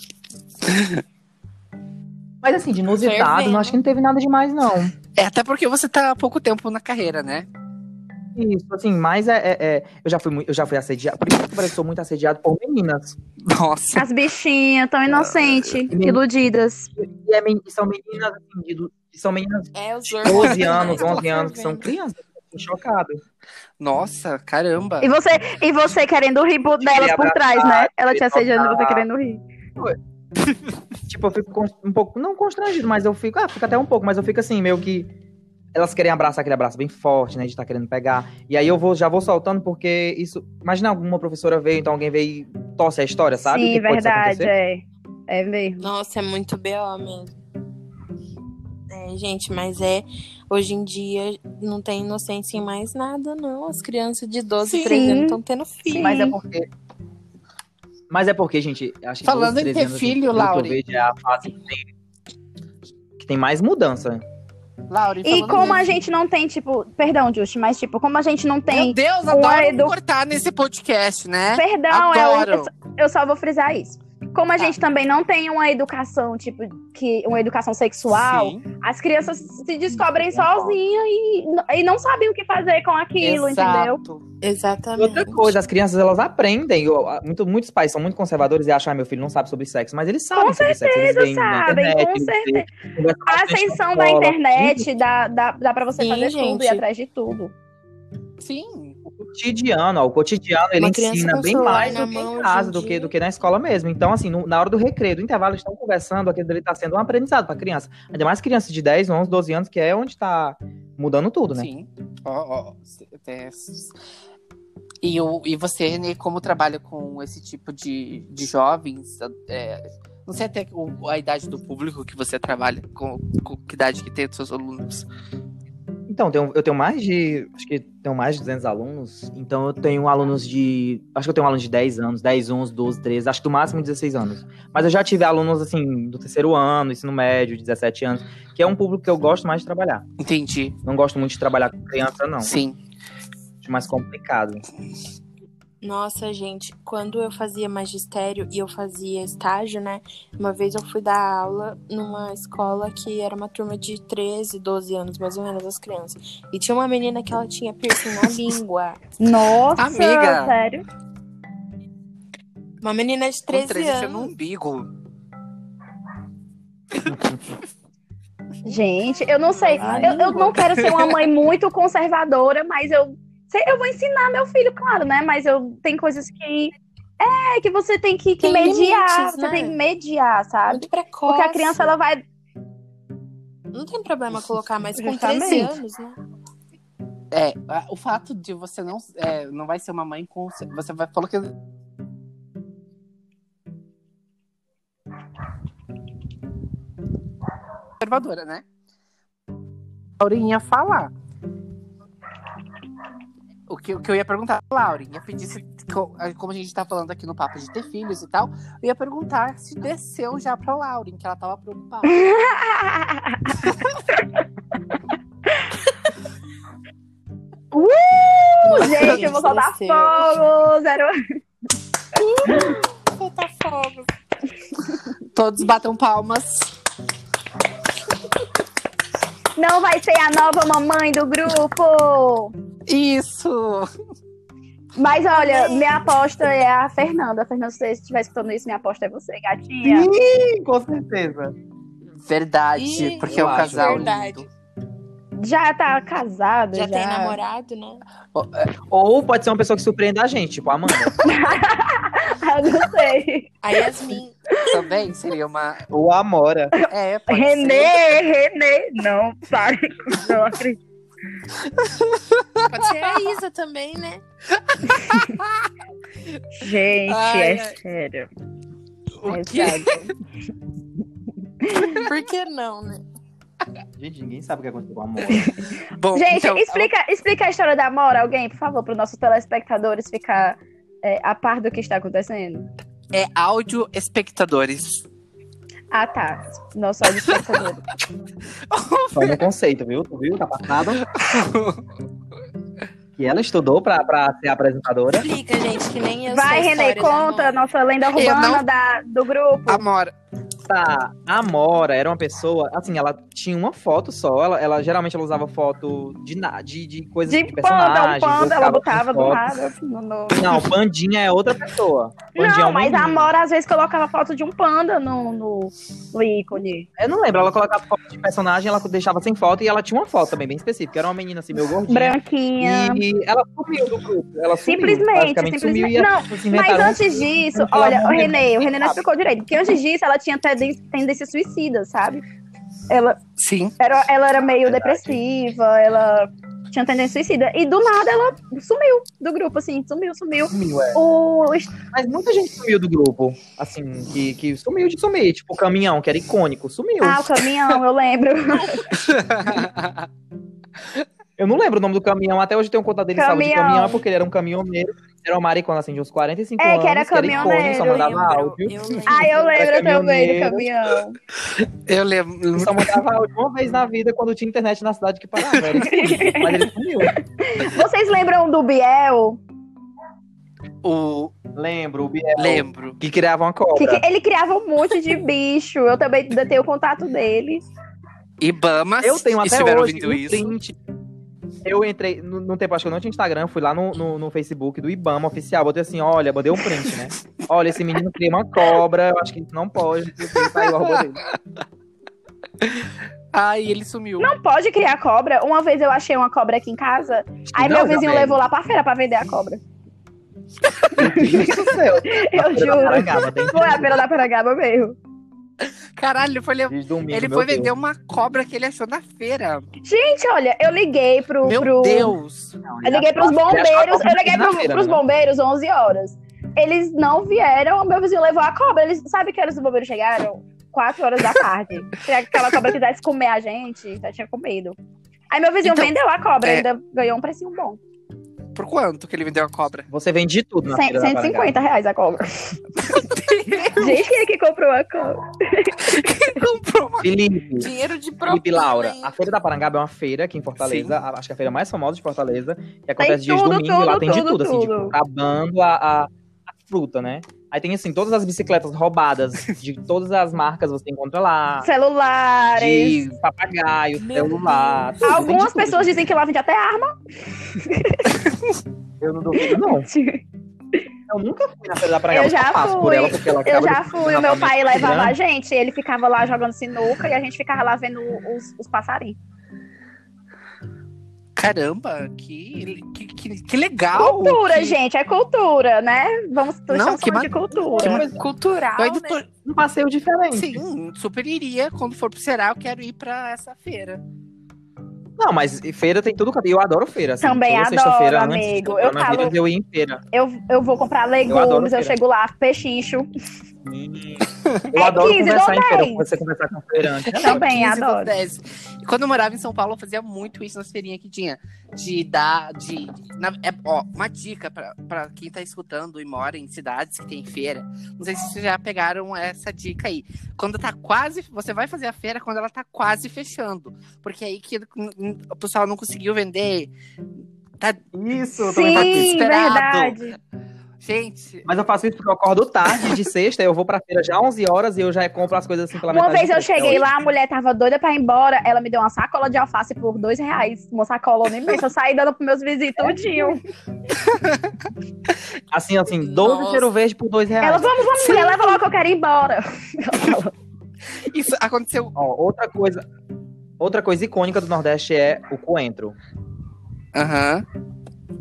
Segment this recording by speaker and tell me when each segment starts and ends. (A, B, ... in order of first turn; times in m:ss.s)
0:00.7-0:01.0 A
0:02.4-0:04.9 B
0:03.0-0:03.8 C
0:05.2-0:07.5 A
0:08.4-0:13.2 B
0:13.4-0:14.1 A
0:13.9-0:16.9 D
0:15.9-0:16.2 B
0:17.0-0:23.2 B
0:19.7-0:21.9 C
0:20.2-0:21.3 A
0:23.8-0:25.1 A
0:25.0-0:29.4 D
0:26.8-0:29.1 B
0:31.1-0:35.1 B
0:35.7-0:44.5 B
0:43.4-0:45.9 D
0:45.8-0:47.4 C
0:48.9-0:56.2 C
0:54.6-0:55.1 A
0:54.8-0:56.4 D
0:55.9-0:56.7 B
0:58.1-1:01.9 B
0:59.2-1:00.8 A
1:03.2-1:04.2 B
1:04.9-1:06.0 A
1:05.2-1:09.9 D
1:08.7-1:12.7 A
1:11.5-1:24.0 D
1:18.1-1:18.6 A
1:19.9-1:20.8 B
1:23.2-1:24.2 A
1:24.4-1:25.6 C
1:25.0-1:34.8 B
1:30.3-1:32.7 D
1:33.2-1:37.5 D
1:36.0-1:36.8 C
1:38.4-1:39.0 A
1:39.0-1:51.7 B
1:40.8-1:43.1 C
1:51.5-1:53.9 A
1:55.0-2:05.1 A
2:06.1-2:20.0 B
2:20.2-2:20.8 A
2:20.8-2:22.6 B
2:22.4-2:22.8 A
2:23.6-2:24.6 B
2:25.8-2:39.0 C
2:39.2-2:40.8 D
2:39.8-2:40.5 A
2:42.8-2:44.3 C
2:43.5-2:44.9 A
2:47.1-2:47.4 B
2:48.6-3:02.2 D
2:49.5-2:50.6 C
2:49.8-2:50.4 B
2:58.4-2:59.8 C
3:00.7-3:01.9 C
3:03.7-3:06.2 C
3:04.9-3:05.7 D
3:07.3-3:11.5 A
3:18.0-3:18.6 A
3:20.2-3:21.1 A
3:23.7-3:32.2 A
3:32.1-3:33.6 D
3:37.8-3:41.1 D
3:38.6-3:40.4 C
3:38.8-3:39.3 A
3:42.2-3:44.1 C
3:42.5-3:42.7 D
3:45.3-3:46.7 A
3:49.6-3:52.5 D
3:52.9-3:53.9 A
3:55.0-4:00.1 D
3:55.3-3:55.9 C
3:59.8-4:01.5 B
4:02.2-4:04.5 A
4:02.8-4:04.4 C
4:03.2-4:04.1 B
4:05.4-4:07.4 D
4:06.7-4:08.0 C
4:08.3-4:08.7 A
4:08.9-4:11.2 B
4:11.2-4:13.5 D
4:13.6-4:14.4 C
4:14.6-4:15.8 A
4:15.9-4:16.7 B
4:16.7-4:20.8 D
4:16.9-4:18.0 A
4:21.8-4:23.3 A
4:22.7-4:24.2 C
4:24.6-4:25.7 A
4:26.6-4:28.3 D
4:27.0-4:27.8 A
4:29.2-4:30.1 A
4:29.3-4:30.1 D
4:31.6-4:32.0 D
4:31.9-4:33.0 C
4:34.0-4:35.5 B
4:35.3-4:42.7 D
4:36.0-4:36.9 A
4:43.1-4:45.0 A
4:45.9-4:47.9 D
4:48.7-4:49.4 A
4:49.1-4:51.0 B
4:51.0-4:51.8 A
4:53.2-4:55.2 B
4:55.2-4:57.6 C
4:56.3-4:59.8 D
4:58.1-4:58.6 A
4:59.7-5:00.1 A
5:00.7-5:09.5 B
5:07.3-5:10.6 D
5:10.3-5:13.3 B
5:12.4-5:16.9 D
5:17.0-5:29.0 B
5:21.9-5:23.0 D
5:24.6-5:32.2 D
5:32.9-5:33.2 D
5:33.4-5:33.7 A
5:33.8-5:41.7 D
5:34.6-5:35.2 B
5:40.5-5:41.0 B
5:41.9-5:47.2 B
5:47.0-5:49.0 D
5:48.9-5:50.0 A
5:51.4-6:00.7 B
5:53.2-5:54.0 D
5:56.6-5:58.2 D
5:57.2-5:59.7 C
5:59.1-6:01.2 D
6:01.6-6:03.0 A
6:02.5-6:07.2 B
6:05.4-6:05.8 A
6:05.8-6:09.4 D
6:10.8-6:11.3 A
6:11.5-6:14.0 B
6:12.4-6:13.0 A
6:13.8-6:17.6 D
6:18.4-6:20.5 A
6:19.0-6:20.7 B
6:21.6-6:31.2 B
6:30.3-6:31.3 A
6:32.6-6:34.3 A
6:34.2-6:39.6 D
6:37.5-6:38.4 B
6:40.9-6:44.0 B
6:40.9-6:45.0 D
6:46.0-6:49.7 A
6:46.7-6:47.7 B
6:49.8-6:52.1 D
6:51.4-6:52.6 A
6:52.6-6:55.0 B
6:52.8-7:04.8 D
7:05.3-7:07.8 D
7:05.6-7:06.6 A
7:08.5-7:09.9 A
7:09.9-7:11.6 B
7:10.7-7:13.0 D
7:12.8-7:14.1 A
7:13.6-7:16.0 D
7:15.8-7:17.2 A
7:17.0-7:17.7 B
7:17.6-7:19.1 C
7:18.2-7:31.7 B
7:20.6-7:20.9 A
7:23.0-7:24.9 D
7:31.6-7:33.0 D
7:32.5-7:36.0 B
7:34.0-7:35.0 C
7:35.0-7:36.9 D
7:37.5-7:38.2 D
7:39.0-7:39.9 B
7:39.4-7:40.2 D
7:41.1-7:45.2 B
7:42.1-7:49.2 D
7:51.4-7:54.8 A
7:53.9-7:58.0 D
7:56.7-7:58.0 A
7:57.8-7:58.2 B
7:57.8-7:59.2 C
7:58.8-7:59.2 A
7:59.4-8:00.6 B
8:00.3-8:04.0 A
8:05.2-8:10.0 B
8:07.2-8:09.4 D
8:10.1-8:13.1 D
8:11.3-8:12.0 B
8:13.6-8:17.5 B
8:14.7-8:16.1 D
8:17.0-8:36.7 A
8:17.2-8:18.1 D
8:37.6-8:37.9 A
8:37.9-8:39.3 B
8:38.4-8:40.1 D
8:38.5-8:40.0 A
8:40.8-8:41.5 A
8:41.4-8:46.9 B
8:45.9-8:53.4 D
8:53.9-8:54.5 A
8:55.5-8:57.8 B
8:56.0-8:56.7 C
8:57.4-9:00.3 D
8:58.0-8:58.6 A
9:01.0-9:01.9 A
9:02.0-9:02.8 B
9:03.6-9:06.0 B
9:06.9-9:07.4 A